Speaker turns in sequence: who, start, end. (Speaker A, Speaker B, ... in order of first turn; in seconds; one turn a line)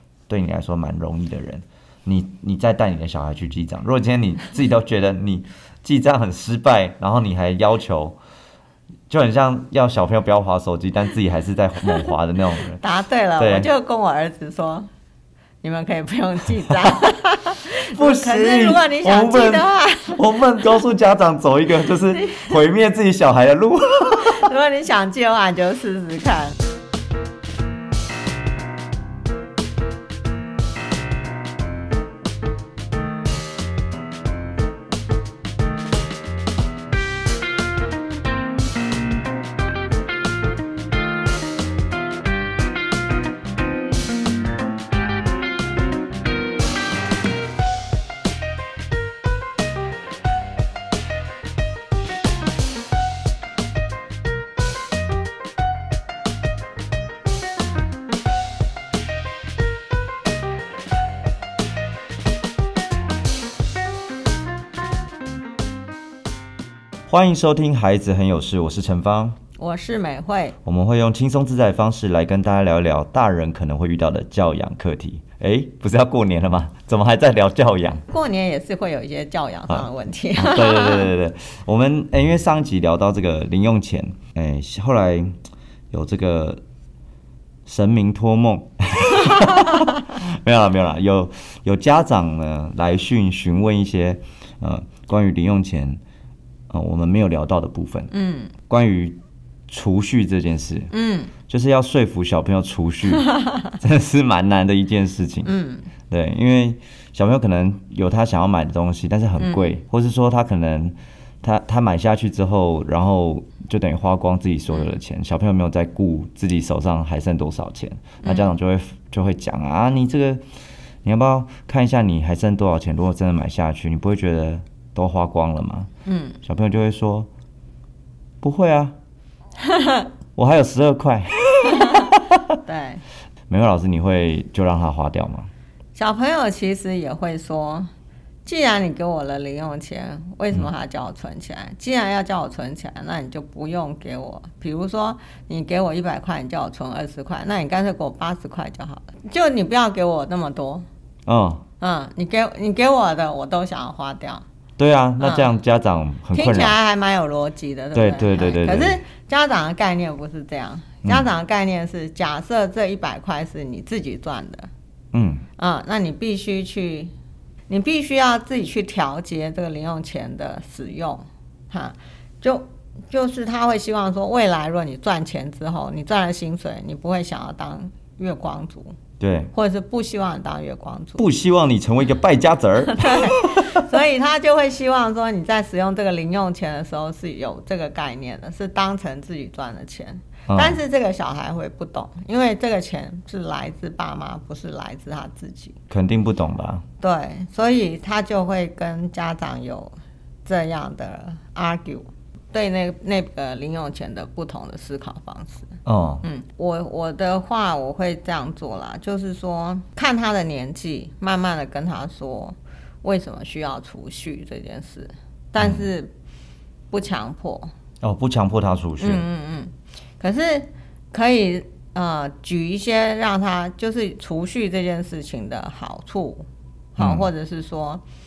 Speaker A: 0.3-8.2
Speaker A: 9.1-12.8
Speaker B: 12.8-14.9
Speaker A: 13.4-13.7
Speaker B: 15.6-20.8
Speaker A: 17.9-24.5
Speaker B: 22.2-22.5
Speaker B: 24.2-26.6
Speaker A: 67.1-69.4
Speaker B: 69.6-70.6
Speaker A: 70.6-78.0
Speaker B: 78.1-81.1
Speaker A: 79.7-85.4
Speaker A: 85.9-86.6
Speaker A: 87.7-96.0
Speaker A: 96.7-98.1
Speaker B: 98.1-98.5
Speaker A: 98.7-100.9
Speaker B: 100.9-101.3
Speaker A: 101.5-105.5
Speaker B: 105.4-105.9
Speaker A: 106.1-120.4
Speaker B: 109.4-109.7
Speaker B: 114.7-115.0
Speaker B: 118.2-118.5
Speaker A: 121.0-125.9
Speaker B: 126.1-126.4
Speaker A: 126.4-127.3
Speaker A: 128.4-129.0
Speaker B: 129.6-130.1
Speaker A: 130.4-132.5
Speaker B: 131.7-132.1
Speaker B: 132.7-133.0
Speaker A: 133.5-135.5
Speaker B: 135.9-137.9
Speaker B: 138.4-150.9
Speaker A: 151.3-151.6
Speaker B: 151.8-154.4
Speaker A: 154.8-156.8
Speaker B: 155.2-155.6
Speaker B: 156.3-164.7
Speaker A: 157.9-159.0
Speaker A: 161.0-161.3
Speaker A: 165.1-165.5
Speaker B: 165.6-167.1
Speaker B: 167.7-179.0
Speaker A: 179.2-179.5
Speaker B: 179.5-181.2
Speaker A: 181.2-183.9
Speaker B: 182.9-195.8
Speaker A: 190.5-190.8
Speaker A: 195.9-196.8
Speaker B: 197.0-216.1
Speaker A: 205.8-206.2
Speaker A: 215.6-215.9
Speaker B: 216.9-217.7
Speaker A: 218.0-219.2
Speaker B: 219.0-228.0
Speaker A: 227.0-227.3